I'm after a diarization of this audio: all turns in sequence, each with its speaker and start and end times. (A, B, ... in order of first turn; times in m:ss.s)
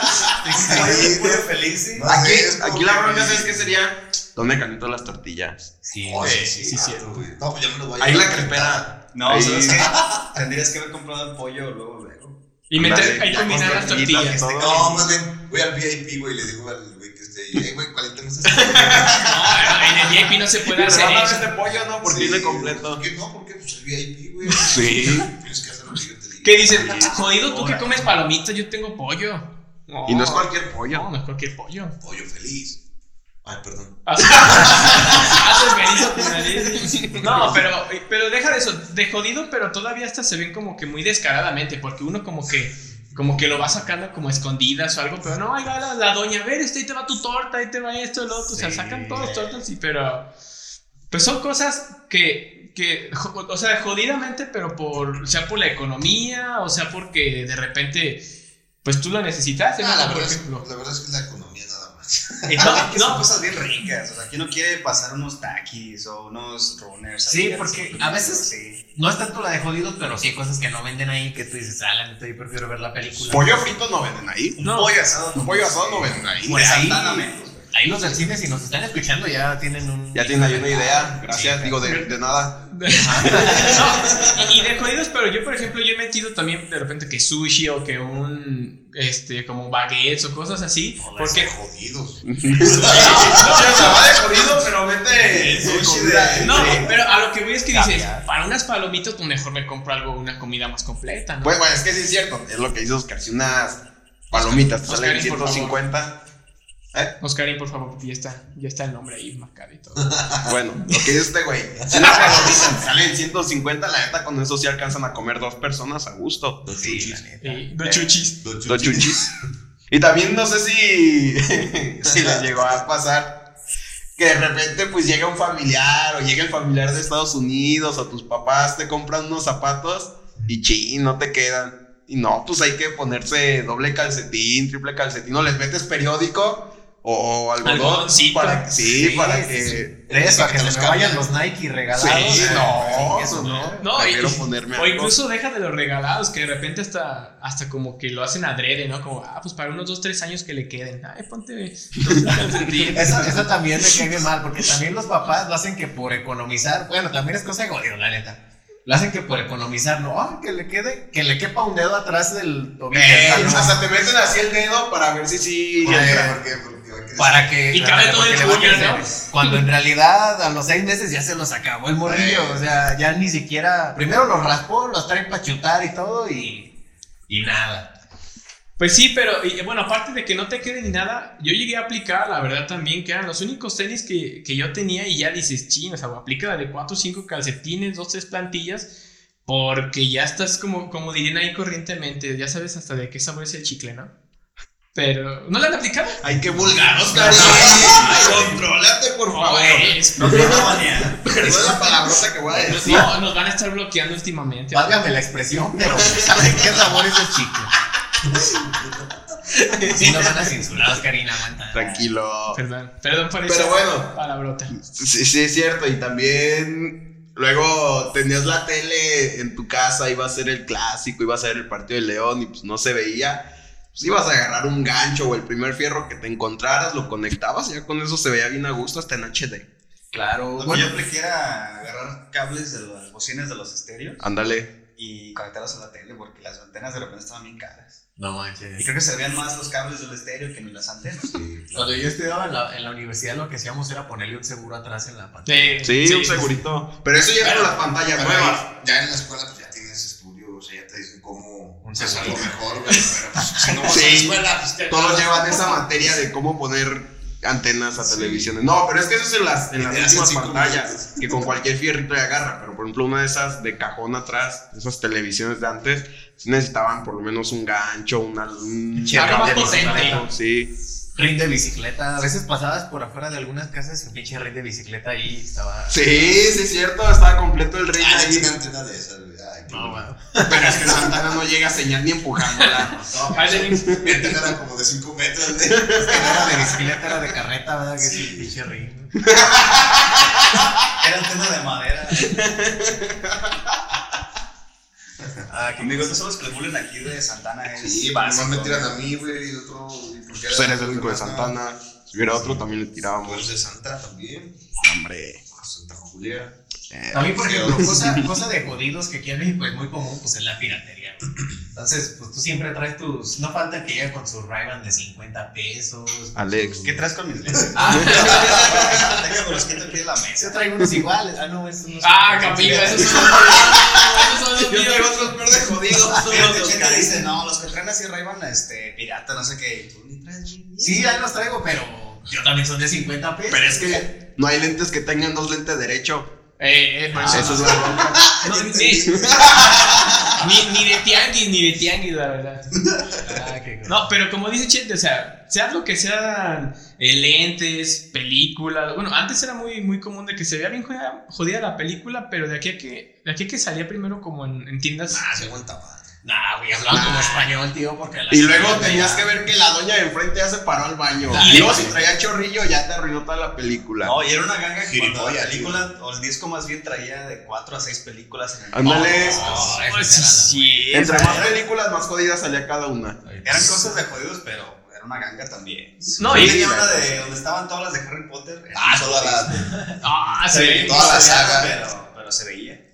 0:00.3-0:01.4 A
0:00.4-0:01.1 B
0:00.6-0:02.1 C
0:02.0-0:03.8 A
0:02.1-0:05.8 D
0:05.9-0:06.5 B
0:06.0-0:09.0 A
0:06.2-0:07.1 E
0:08.0-0:09.9 D
0:09.1-0:12.4 C
0:09.7-0:10.4 A
0:12.7-0:14.4 E
0:12.8-0:14.9 D
0:13.7-0:15.2 C
0:14.6-0:20.2 A
0:18.5-0:19.3 D
0:19.2-0:21.5 E
0:20.7-0:23.0 D
0:21.7-0:27.2 A
0:24.6-0:25.3 D
0:26.4-0:32.0 E
0:26.8-0:27.1 D
0:30.1-0:31.1 D
0:32.0-0:32.8 A
0:33.4-0:37.6 A
0:34.1-0:50.3 E
0:36.8-0:37.6 D
0:43.1-0:43.4 A
0:48.5-0:49.2 B
0:51.1-0:58.2 E
0:58.8-1:00.6 E
0:59.8-1:02.8 A
1:02.4-1:08.8 C
1:02.6-1:03.3 E
1:07.3-1:13.5 B
1:13.3-1:14.6 D
1:14.6-1:17.7 C
1:14.6-1:15.0 E
1:15.4-1:16.7 D
1:16.5-1:22.0 B
1:20.1-1:24.3 D
1:22.7-1:31.5 E
1:22.9-1:23.9 B
1:31.0-1:34.1 A
1:32.2-1:36.9 D
1:32.9-1:34.2 E
1:35.1-1:37.0 C
1:36.4-1:41.6 E
1:37.8-1:38.2 C
1:41.4-1:46.2 D
1:44.3-1:45.8 E
1:47.2-1:50.2 E
1:50.1-1:50.5 A
1:50.5-1:57.2 D
1:51.9-1:52.8 A
1:52.1-1:52.5 E
1:56.7-1:57.6 B
1:57.4-1:58.4 E
1:58.4-1:59.3 A
1:58.7-1:59.3 D
1:59.9-2:03.4 D
2:02.0-2:02.8 A
2:04.2-2:20.9 D
2:17.6-2:18.7 E
2:18.8-2:23.9 B
2:20.2-2:21.2 A
2:21.9-2:25.2 D
2:22.3-2:23.2 A
2:23.8-2:33.4 E
2:32.6-2:32.9 D
2:32.9-2:43.8 B
2:42.9-2:46.4 D
2:43.4-2:43.7 A
2:45.8-2:47.7 A
2:45.8-2:46.3 B
2:47.2-2:56.7 B
2:47.7-2:49.1 E
2:52.0-2:52.7 A
2:57.3-2:57.9 B
2:58.8-3:08.9 E
3:09.5-3:14.1 E
3:15.0-3:16.2 E
3:16.2-3:23.1 D
3:16.6-3:18.3 A
3:16.7-3:18.0 B
3:17.2-3:18.5 E
3:19.3-3:20.7 E
3:20.2-3:21.3 C
3:21.3-3:23.0 A
3:22.6-3:25.0 E
3:24.7-3:27.7 B
3:25.9-3:26.5 D
3:28.3-3:29.1 A
3:29.7-3:30.5 D
3:29.9-3:32.0 B
3:31.7-3:32.6 D
3:32.5-3:34.7 E
3:33.5-3:34.2 D
3:34.8-3:49.7 D
3:50.1-3:50.9 B
3:50.6-3:54.2 C
3:54.2-3:54.7 D
3:55.0-3:58.0 C
3:58.2-3:58.9 B
3:58.8-4:01.4 C
4:01.3-4:02.1 A
4:01.7-4:06.4 B
4:05.5-4:06.5 E
4:05.8-4:08.6 D
4:08.1-4:15.7 A
4:11.8-4:12.6 B
4:13.9-4:30.7 D
4:14.8-4:15.8 E
4:18.0-4:18.5 A
4:19.7-4:21.4 A
4:29.0-4:30.3 B
4:29.1-4:30.2 E
4:31.2-4:36.1 B
4:35.9-4:38.5 D
4:36.1-4:36.5 A
4:38.0-4:40.1 A
4:39.7-4:40.8 B
4:40.4-4:43.0 D
4:40.6-4:41.2 A
4:42.9-4:43.6 B
4:43.3-4:47.2 A
4:43.3-4:44.1 E
4:43.7-4:44.3 D
4:45.7-4:46.2 D
4:46.0-4:49.2 B
4:48.0-4:48.5 A
4:49.2-4:49.6 D
4:49.3-4:50.1 A
4:51.0-4:52.4 C
4:52.2-4:53.8 D
4:55.5-4:56.2 B
4:55.8-4:59.0 C
4:57.8-5:01.6 A
5:00.5-5:03.5 D
5:02.3-5:02.6 A
5:03.2-5:04.7 A
5:04.8-5:05.5 D
5:05.5-5:06.6 A
5:06.9-5:08.3 D
5:07.1-5:16.9 B
5:07.4-5:08.2 A
5:16.4-5:16.9 D
5:16.8-5:20.6 C
5:17.8-5:19.1 B
5:17.8-5:18.5 E
5:17.8-5:18.7 D
5:18.3-5:19.2 A
5:20.4-5:23.6 B
5:22.0-5:25.4 E
5:23.2-5:27.1 D
5:26.2-5:31.4 C
5:30.8-5:34.0 B
5:33.5-5:36.3 D
5:36.6-5:39.4 E
5:37.1-5:37.8 B
5:37.3-5:38.3 D
5:37.4-5:40.4 A
5:39.0-5:39.8 D
5:40.4-5:42.7 E
5:43.2-5:44.1 B
5:43.9-5:55.2 E
5:55.1-5:56.2 A
5:56.2-5:59.3 B
5:56.9-5:57.5 D
5:58.3-6:04.2 D
6:01.3-6:02.0 B
6:01.4-6:01.9 E
6:04.0-6:09.8 C
6:04.9-6:05.9 A
6:08.7-6:09.7 D
6:09.2-6:10.9 B
6:09.5-6:11.5 E
6:10.9-6:13.2 D
6:11.1-6:11.6 C
6:13.2-6:14.0 B
6:13.4-6:19.6 C
6:16.2-6:16.6 E
6:16.3-6:17.1 D
6:18.7-6:19.7 A
6:19.5-6:20.0 B
6:20.0-6:21.4 E
6:20.5-6:22.8 C
6:20.8-6:21.8 A